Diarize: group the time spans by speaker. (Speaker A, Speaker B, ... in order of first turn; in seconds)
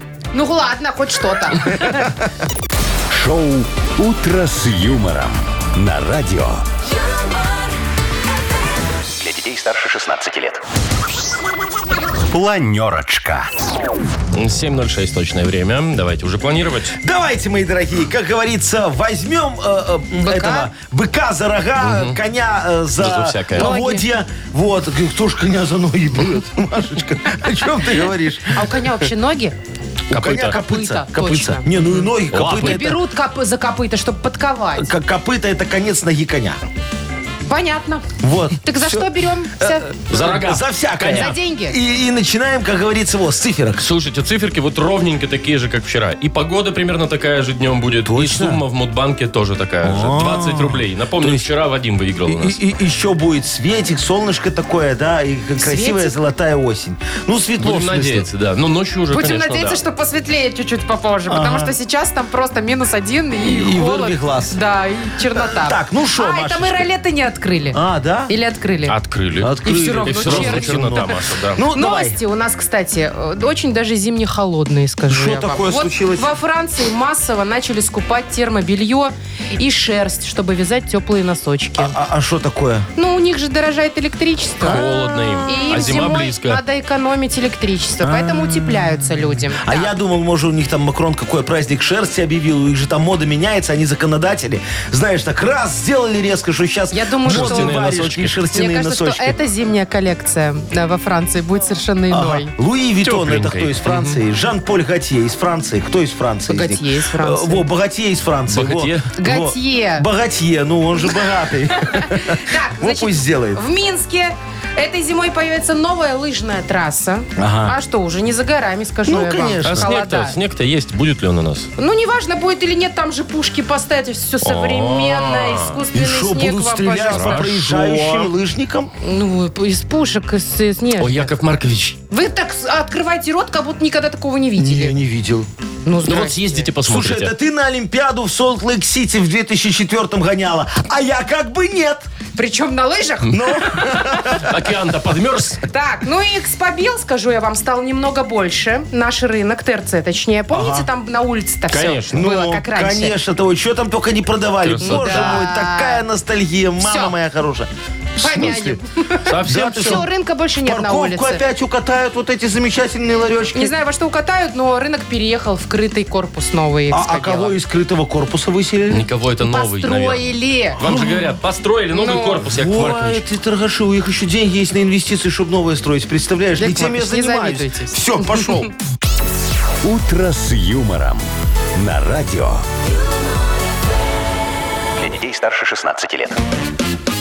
Speaker A: 0.3-2.1, 20.2-20.7, 23.6-24.1, 28.5-29.6, 30.6-34.9, 37.5-38.1, 38.6-39.9, 41.0-41.8, 55.6-56.2, 59.1-68.9, 69.6-71.1, 71.7-82.0, 83.0-84.9, 85.4-89.9, 96.9-97.8, 98.5-102.5, 106.5-107.6, 109.2-110.1, 111.8-120.3, 121.8-127.5, 129.0-131.3, 132.1-135.0, 135.9-136.4, 142.3-144.1, 145.6-153.2, 154.8-156.0, 156.8-157.2, 158.2-161.4, 163.6-167.6, 169.4-170.8, 171.9-172.4, 176.6-178.4
Speaker B: 3.1-6.6, 12.3-13.5, 179.8-182.7
Speaker C: 9.2-10.6, 185.0-186.4
Speaker D: 14.3-17.0, 21.8-22.2, 23.0-23.7, 30.1-30.6, 32.3-32.8, 40.1-40.6, 43.8-52.6, 57.6-59.8, 68.9-71.6, 84.6-86.6, 97.2-98.4, 103.0-104.2, 108.5-109.1, 119.7-121.7, 124.4-125.8, 127.1-128.3, 131.0-132.0, 136.1-137.3, 143.6-145.6, 151.7-152.2, 154.6-155.4, 159.3-160.0, 168.9-173.2
Speaker E: 17.0-28.7, 30.1-33.0, 34.8-36.6, 38.2-43.8, 48.0-48.6, 49.8-51.5, 52.3-58.3, 61.3-61.7, 63.4-64.6, 65.3-66.9, 67.7-68.3, 69.4-72.2, 75.1-76.3, 81.8-82.9, 88.0-88.9, 89.6-99.4, 102.1-113.6, 117.4-117.8, 119.0-119.9, 125.9-128.9, 134.6-135.5, 136.8-142.1, 143.3-144.6, 150.5-150.9, 152.1-158.8, 159.4-160.1, 160.6-163.7, 166.9-169.1, 170.8-171.3, 172.4-178.7